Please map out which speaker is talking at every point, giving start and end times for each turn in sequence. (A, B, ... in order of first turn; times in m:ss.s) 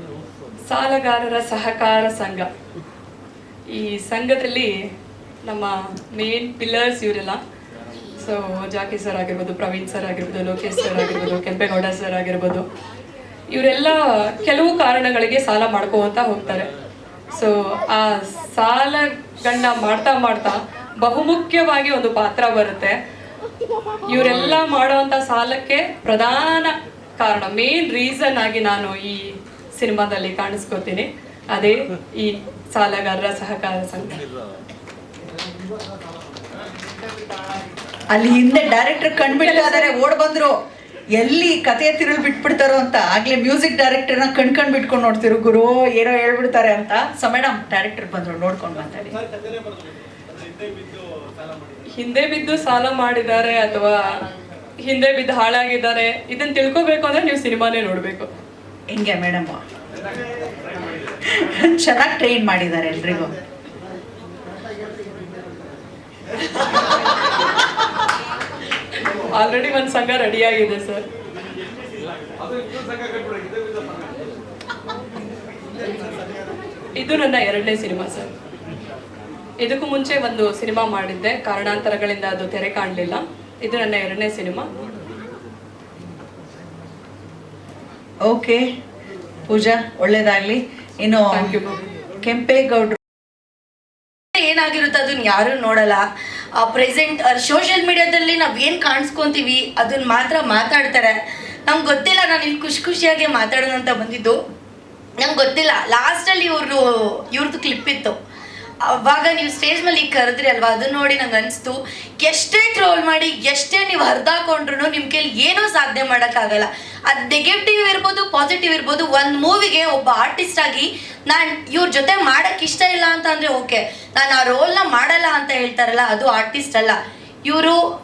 0:00.7-0:02.5 A
0:03.7-0:04.7 A
0:05.5-0:07.4 A
0:08.2-0:12.6 A
0:13.5-0:16.7 A
0:17.4-0:23.0 A
0:24.0-0:29.2 A
0:29.8-0:34.2 A
0:38.1-0:40.6 B
0:41.2-0:49.2 B
0:52.0-0:54.1 A
0:54.8-0:58.3 A
0:58.9-0:59.6 B
1:01.4-1:03.3 B
1:09.4-1:11.0 A
1:17.0-1:18.3 A
1:19.6-1:24.7 A
1:28.3-1:28.6 B
1:29.5-1:31.6 B
1:31.3-1:31.8 A
1:32.2-1:33.0 B
1:34.4-1:36.0 C
1:36.6-1:41.2 C
1:41.7-1:44.4 C
1:45.2-1:48.2 C
1:48.9-2:07.8 C